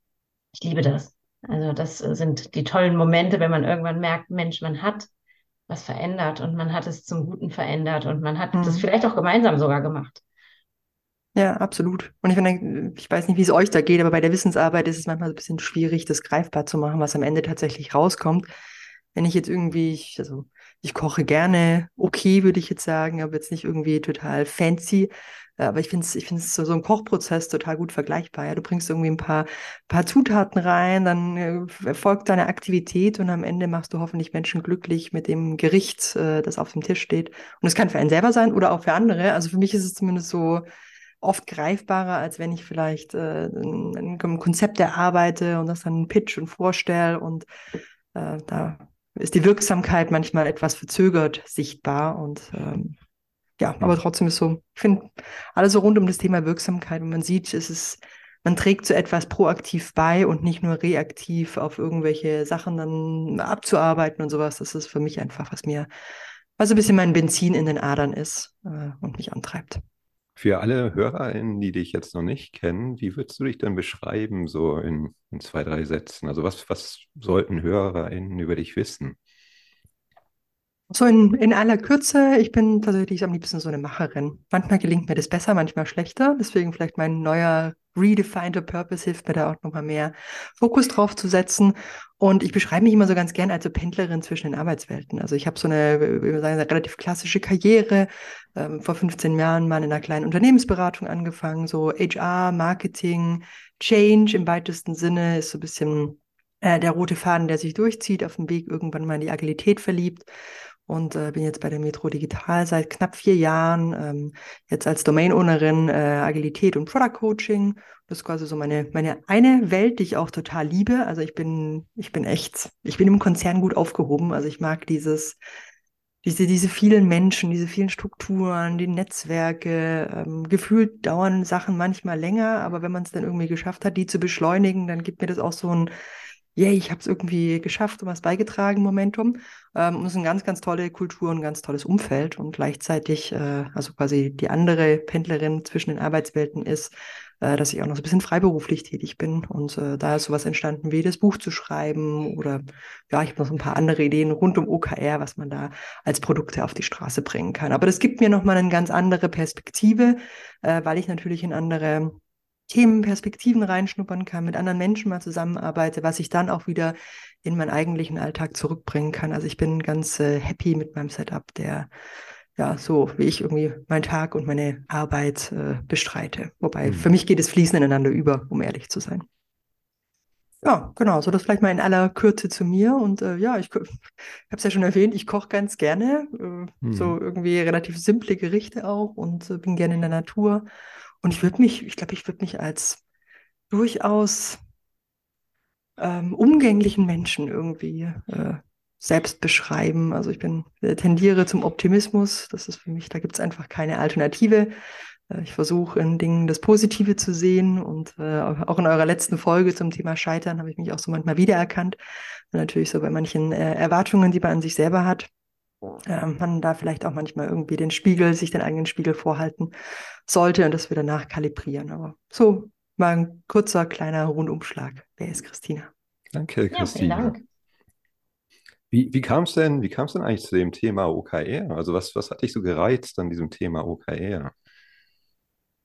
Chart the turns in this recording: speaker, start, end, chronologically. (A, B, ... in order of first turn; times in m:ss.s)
0:00.6-0:05.1 A
0:05.7-0:10.2 A
0:08.5-0:08.8 B
0:11.3-0:18.5 B
0:19.1-0:40.6 B
0:41.2-0:47.5 B
0:48.1-0:53.0 B
0:53.6-1:05.9 B
1:06.6-1:09.8 B
1:10.4-1:19.2 C
1:20.9-1:50.3 B
1:50.9-2:05.4 B
2:06.2-2:15.9 B
2:16.6-2:51.9 B
2:52.6-2:59.2 B
2:56.8-2:57.1 C
3:00.6-3:10.6 B
3:06.8-3:07.2 C
3:11.2-3:13.0 B
3:13.7-3:14.6 B
3:16.0-3:24.7 B
3:25.3-3:32.0 B
3:32.5-3:35.3 B
3:36.0-3:39.7 B
3:40.3-3:45.9 B
3:46.3-3:47.4 C
3:46.7-3:47.4 A
3:48.9-3:54.5 C